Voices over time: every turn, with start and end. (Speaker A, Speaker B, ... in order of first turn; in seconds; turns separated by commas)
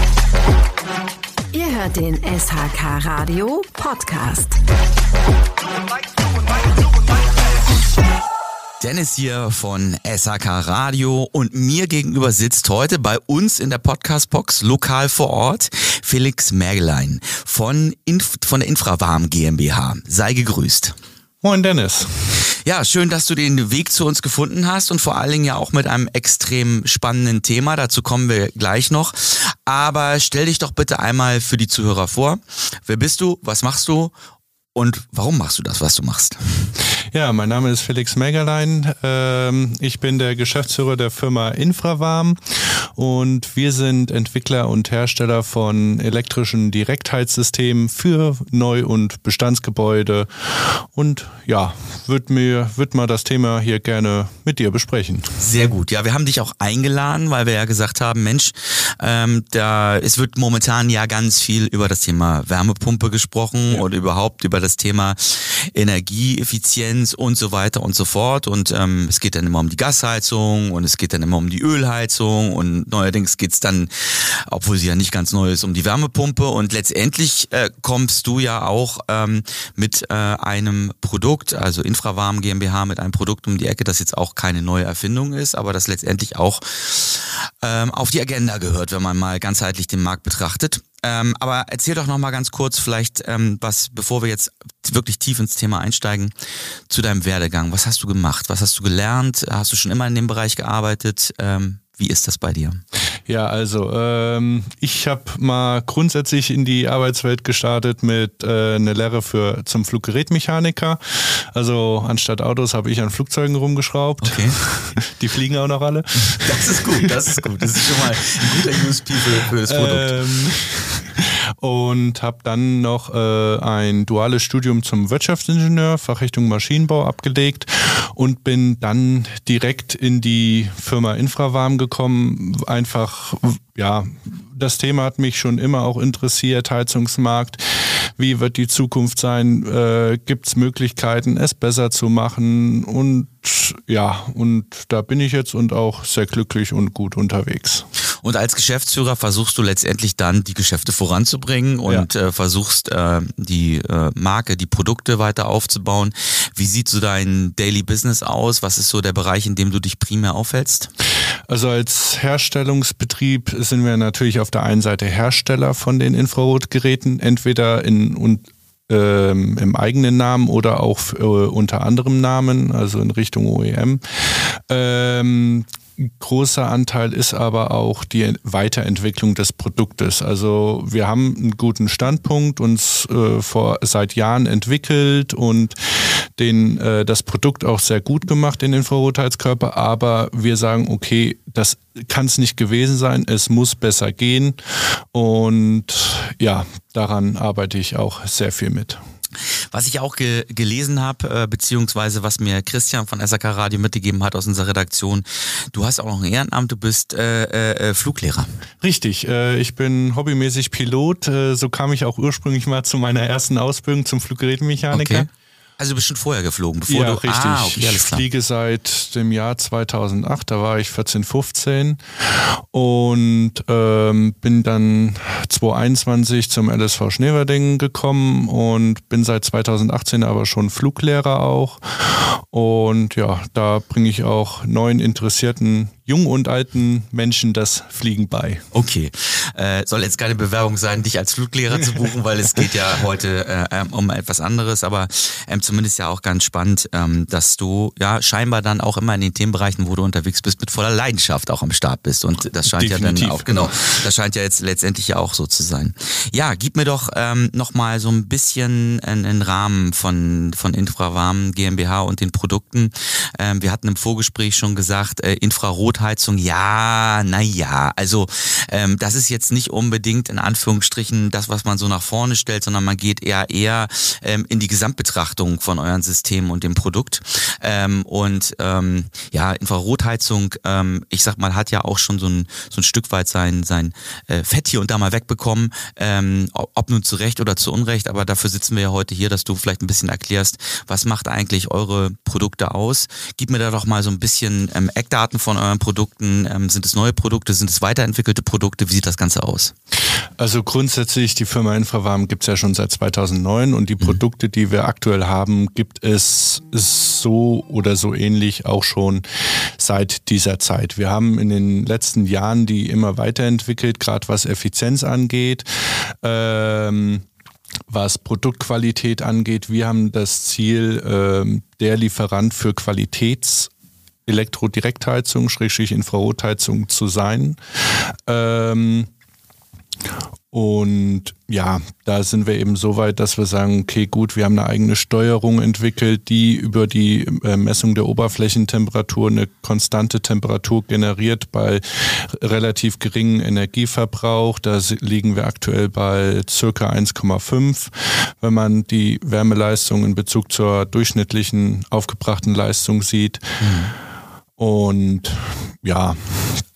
Speaker A: 1.5-4.6, Speaker B: 8.8-21.0, Speaker C: 21.4-22.4, Speaker B: 22.6-34.1, Speaker B: 34.8-36.7, Speaker C: 37.1-55.3, Speaker B: 55.4-96.3, Speaker B: 96.9-102.8, Speaker C: 103.3-117.5, Speaker B: 114.2-114.6, Speaker B: 116.2-120.2, Speaker C: 118.2-118.6, Speaker C: 119.7-147.9, Speaker B: 148.2-160.9, Speaker C: 161.5-199.0, Speaker B: 199.7-208.5, Speaker C: 208.8-215.3, Speaker B: 214.9-215.3, Speaker B: 215.8-218.2, Speaker C: 216.9-238.6, Speaker B: 238.7-299.7, Speaker C: 252.7-253.7, Speaker C: 300.4-309.2, Speaker C: 309.8-317.2, Speaker C: 317.9-323.7, Speaker C: 324.3-329.1, Speaker C: 330.5-353.4, Speaker B: 353.6-353.9, Speaker C: 354.6-356.6